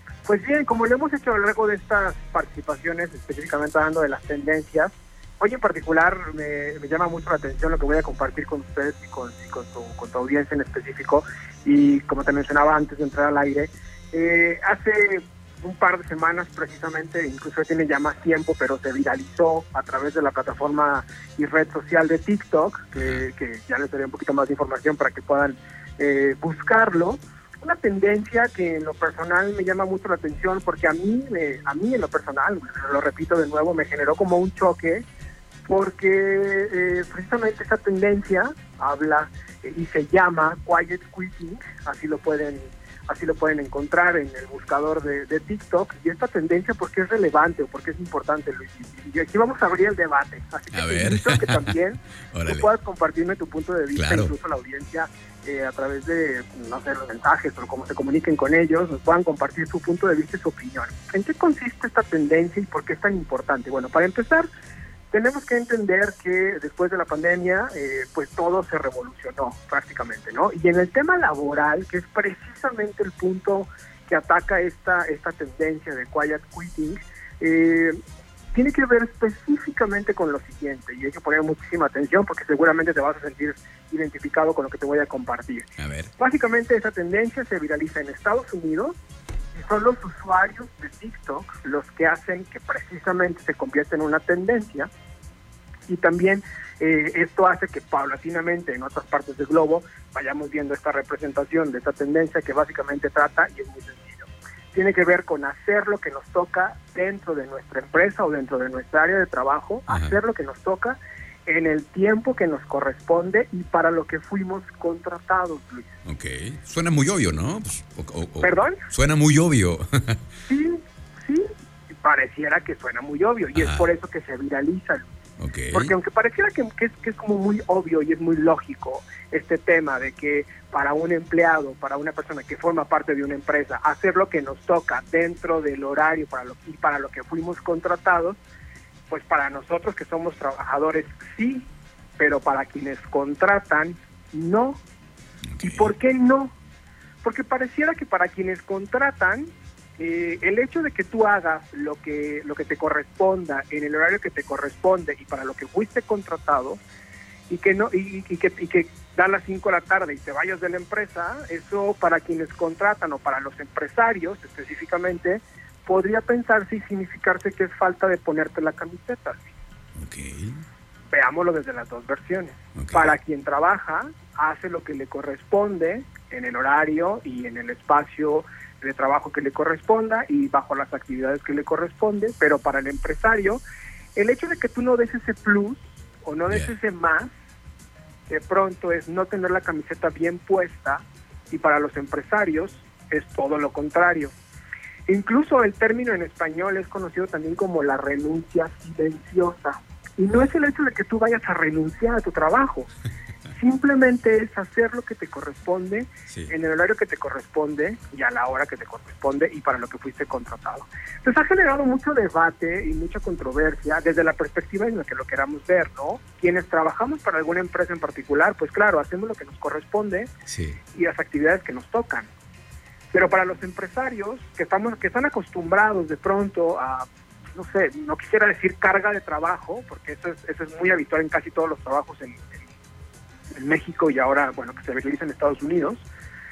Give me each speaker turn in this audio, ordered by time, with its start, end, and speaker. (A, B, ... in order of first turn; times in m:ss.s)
0:00.2-0:35.0 A
0:23.0-0:23.2 B
0:35.7-1:04.5 A
0:50.7-0:51.7 B
0:52.3-0:52.7 B
0:53.9-0:54.3 B
1:05.1-1:18.0 A
1:18.5-1:29.0 A
1:25.8-1:26.1 B
1:29.5-1:34.9 A
1:35.9-1:56.0 A
1:49.9-1:50.2 B
1:56.0-2:00.2 B
1:58.4-1:58.8 A
2:00.5-2:05.1 A
2:03.5-2:03.9 B
2:05.4-2:05.9 B
2:05.7-2:18.4 A
2:19.1-2:24.8 A
2:25.6-2:25.9 B
2:25.6-2:26.5 A
2:27.2-2:36.8 A
2:37.5-2:49.5 A
2:50.0-2:50.6 B
2:51.1-3:03.6 A
2:52.8-2:53.1 B
3:04.2-3:07.3 A
3:08.3-3:14.3 A
3:15.1-3:22.9 A
3:23.5-3:40.3 A
3:40.5-3:40.8 B
3:40.9-3:42.3 A
3:43.1-3:52.6 A
3:53.6-3:56.1 A